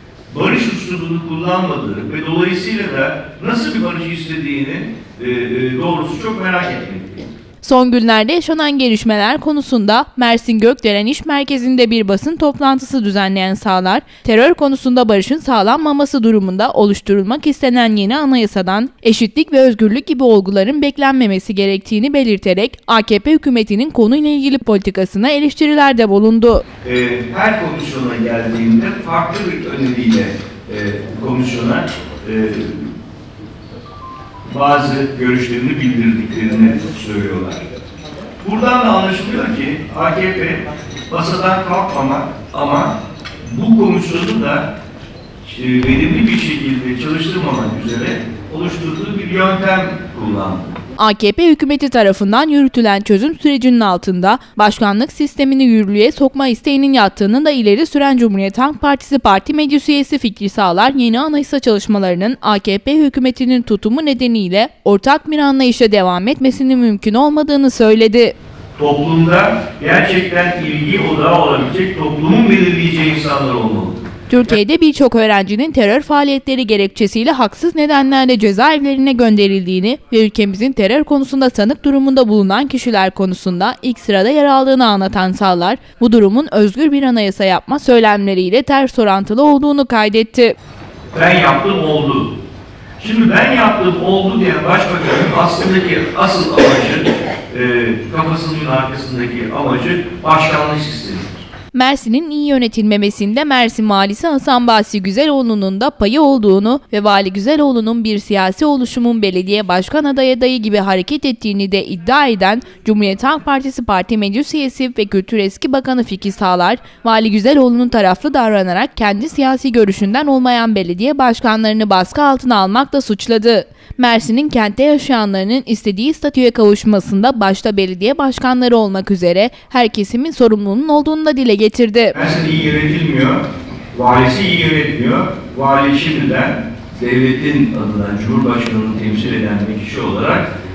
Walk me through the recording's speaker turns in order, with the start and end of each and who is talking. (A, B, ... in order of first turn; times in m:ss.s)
0:00.3-0:07.3 A
0:07.6-0:26.6 B
0:26.8-0:32.9 A
0:34.5-0:37.6 A
0:38.4-0:44.7 A
0:45.4-0:50.7 A
0:51.0-1:08.3 B
1:08.8-1:14.1 A
1:14.3-1:30.5 B
1:31.1-1:32.3 A
1:33.0-1:41.4 A
1:41.7-2:12.1 B
2:12.1-2:20.4 A